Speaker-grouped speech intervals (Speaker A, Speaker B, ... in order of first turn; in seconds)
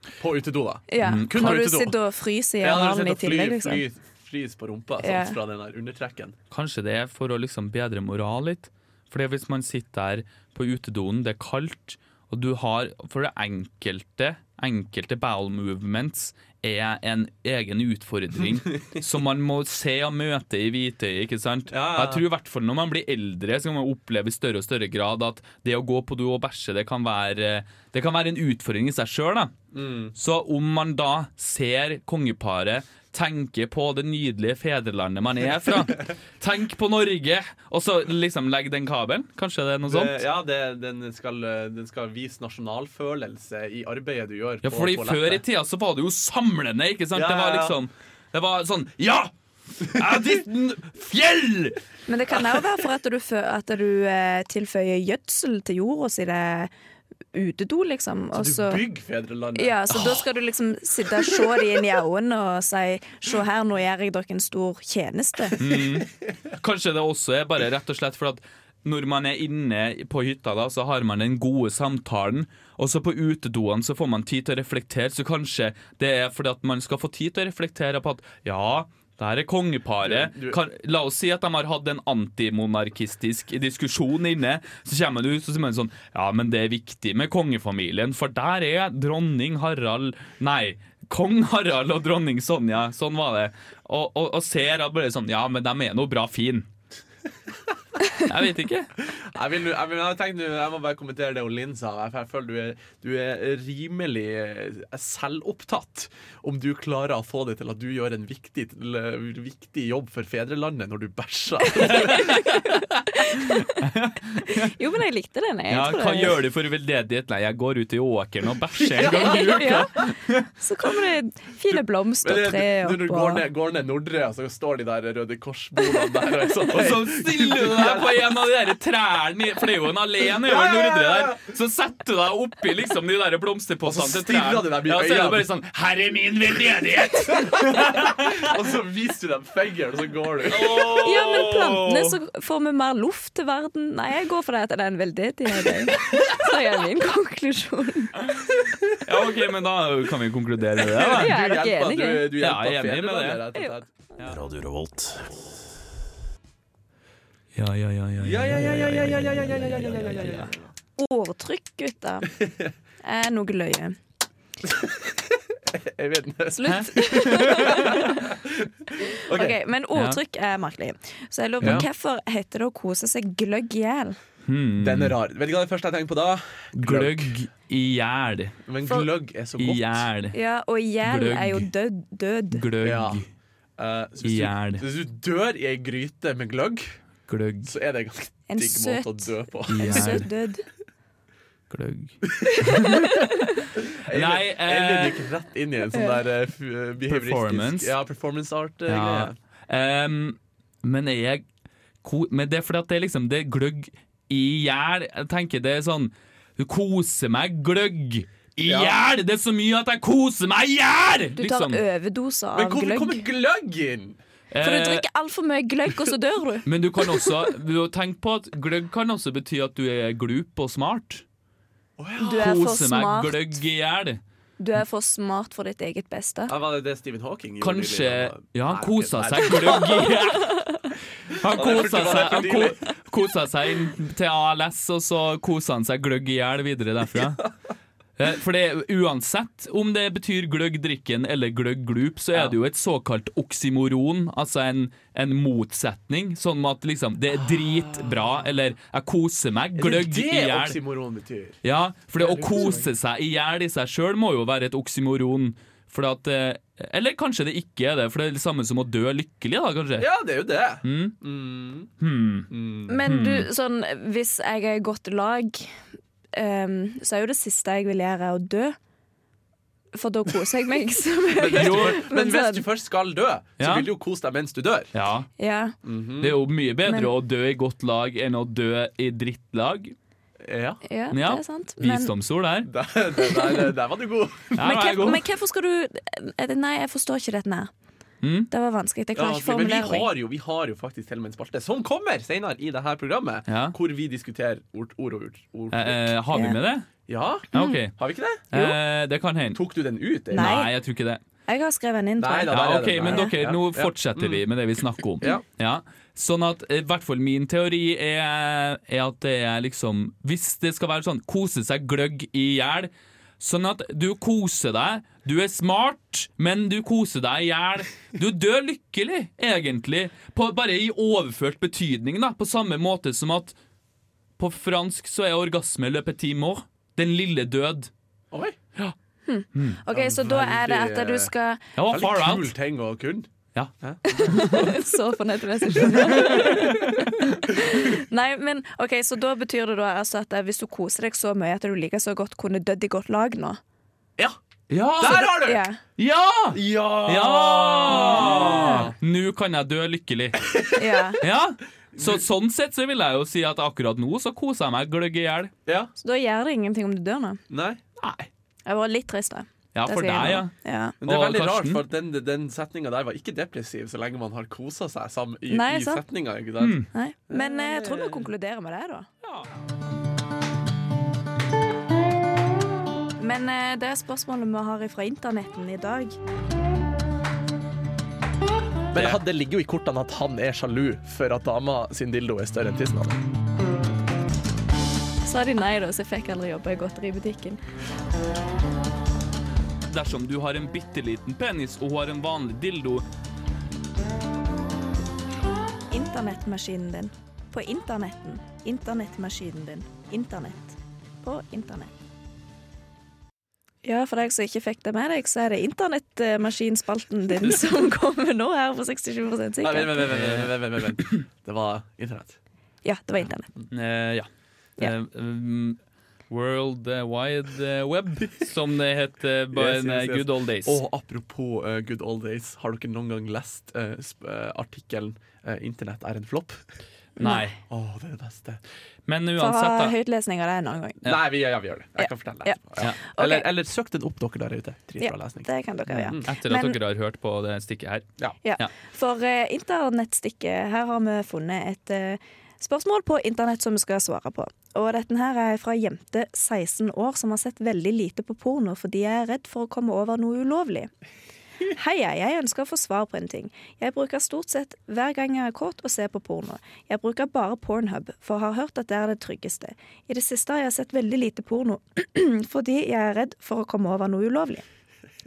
Speaker A: 0.2-2.0, 2.6-6.3, 21.7-22.2, 29.7-30.1, 39.9-45.4, 47.1-47.8, 58.3-60.2, 80.0-80.6, 99.1-112.6, 119.0-119.5, 121.7-128.3, 130.5-131.4, 133.8-135.4, 137.2-140.9, 150.8-153.9, 158.2-160.7, 164.6-169.6, 171.6-171.9, 174.8-177.3, 178.7-180.1, 182.8-183.2, 183.8-187.0, 187.6-190.2, 193.9-199.3, 208.6-208.9, 212.5-214.2, 222.0-222.4, 226.5-230.1, 231.4-232.9, 247.5-248.3, 249.8-251.6, 252.2-252.9, 260.0-261.9, 262.5-263.0, 271.3-274.9, 275.8-276.4, 280.4-280.8, 282.6-284.7, 289.1-296.1, 297.1-298.7, 299.5-300.6, 302.2-304.4, 328.3-328.6, 329.9-331.3, 331.9-333.3, 333.8-334.8, 335.7-336.7, 345.0-345.6, 346.5-348.9, 350.5-350.9, 351.9-352.2, 355.6-355.9, 357.5-357.8, 361.0-368.3, 378.9-383.2, 409.6-412.4, 419.5-426.6, 427.7-428.6, 431.0-436.3
Speaker B: 0.9-3.8, 5.0-5.4, 52.1-56.7, 57.3-58.8, 59.5-65.6, 111.8-113.9, 114.4-116.4, 119.0-123.4, 140.9-148.2, 151.1-152.4, 161.0-162.3, 163.0-164.0, 166.5-168.3, 169.0-174.2, 180.3-182.7, 188.5-190.6, 192.5-193.6, 195.9-196.2, 211.4-213.2, 214.6-217.3, 222.2-223.6, 224.6-226.5, 230.4-230.7, 262.9-265.7, 266.3-268.8, 269.9-272.6, 275.4-275.8, 276.8-277.1, 280.8-282.1, 283.2-283.7, 284.6-287.7, 288.5-290.1, 296.3-296.6, 297.5-297.8, 300.3-300.7, 301.5-303.3, 329.3-331.6, 334.1-343.6, 345.1-345.8, 347.9-348.9, 350.7-351.2, 356.0-357.4, 358.6-360.9, 365.5-366.0, 366.9-369.1, 373.2-376.2, 385.2-387.6, 395.9-401.9, 403.8-410.1, 412.8-413.5, 427.2-427.5, 429.4-431.0, 432.0-433.5, 435.0-436.8, 438.4-450.9, 451.7-464.6
Speaker C: 1.0-1.5, 6.5-29.5, 30.1-40.2, 44.6-51.8, 65.6-96.7, 98.1-98.9, 111.9-112.5, 113.8-114.7, 115.7-120.5, 126.7-138.3, 140.5-142.2, 149.0-151.4, 152.4-153.5, 154.2-154.7, 157.5-160.5, 166.7-167.9, 169.9-170.2, 171.6-171.8, 174.4-175.2, 176.7-178.6, 179.6-180.3, 181.0-181.7, 182.5-183.2, 184.2-184.8, 187.3-187.7, 189.7-190.3, 191.7-193.1, 194.1-195.2, 197.1-197.9, 198.9-201.4, 202.0-211.8, 214.5-215.0, 216.6-221.2, 222.3-224.2, 227.6-230.8, 231.3-237.5, 238.2-250.8, 251.6-260.1, 260.8-261.2, 262.0-262.5, 263.0-263.5, 271.5-272.0, 273.6-273.9, 274.9-275.3, 276.2-279.9, 281.1-282.7, 284.6-285.2, 288.2-288.5, 293.5-293.7, 295.7-296.9, 297.5-297.9, 298.5-299.6, 300.3-301.2, 302.5-323.6, 324.4-327.9, 329.5-329.8, 331.8-332.5, 333.5-334.6, 336.0-337.1, 344.7-345.4, 346.0-350.4, 351.2-355.5, 358.0-358.3, 359.7-361.8, 366.6-366.9, 369.2-369.5, 378.9-379.2, 389.9-393.1, 410.1-411.1, 413.7-414.3, 414.8-415.8, 416.3-420.8, 427.2-427.6, 429.1-429.9, 436.2-438.7